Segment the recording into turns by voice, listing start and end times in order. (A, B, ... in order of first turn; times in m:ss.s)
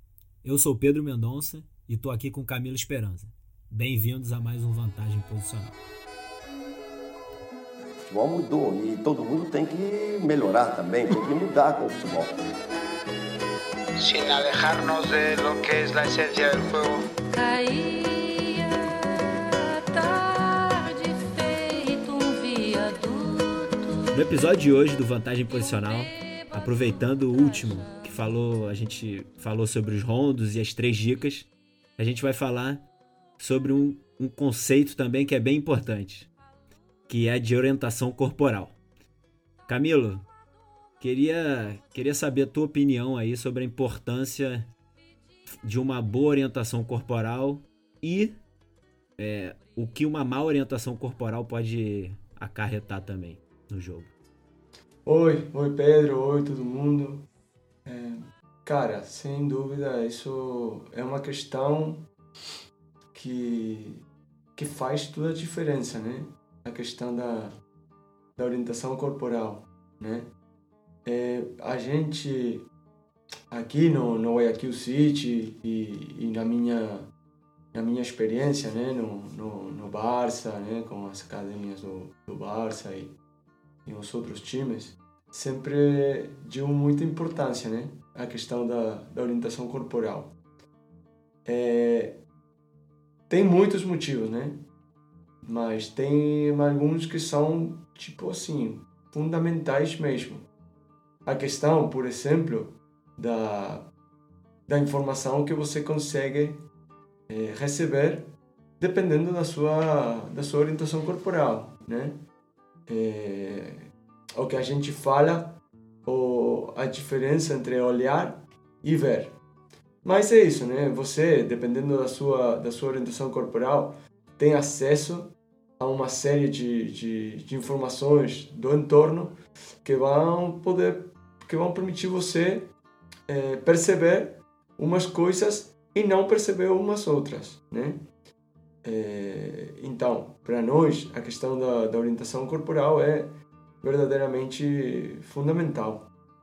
0:00.4-0:05.8 A
0:08.0-0:12.3 B
0:14.0-0:17.1 C
0:17.2-0:24.1 D
0:24.1-0:32.8 A
0:33.4-0:36.3 A
0:37.1-0:38.8 A
0:39.7-0:40.2 A
0:41.0-0:44.7 A
0:45.6-0:48.4 A
0:49.2-0:54.1 A
0:55.0-0:57.2 E
0:57.9-1:02.0 E
1:03.1-1:04.0 E
1:04.6-1:07.6 E
1:08.4-1:10.3 E
1:11.0-1:12.7 E
1:13.5-1:17.1 E
1:17.7-1:23.1 E
1:23.9-1:30.3 E
1:31.4-1:32.2 E
1:33.3-1:34.6 E
1:35.4-1:40.4 E
1:41.2-1:43.9 E
1:44.7-1:46.6 E
1:47.3-1:52.2 E
1:52.9-1:59.4 E
2:00.0-2:12.7 E
2:13.3-2:18.0 E
2:18.8-2:26.1 E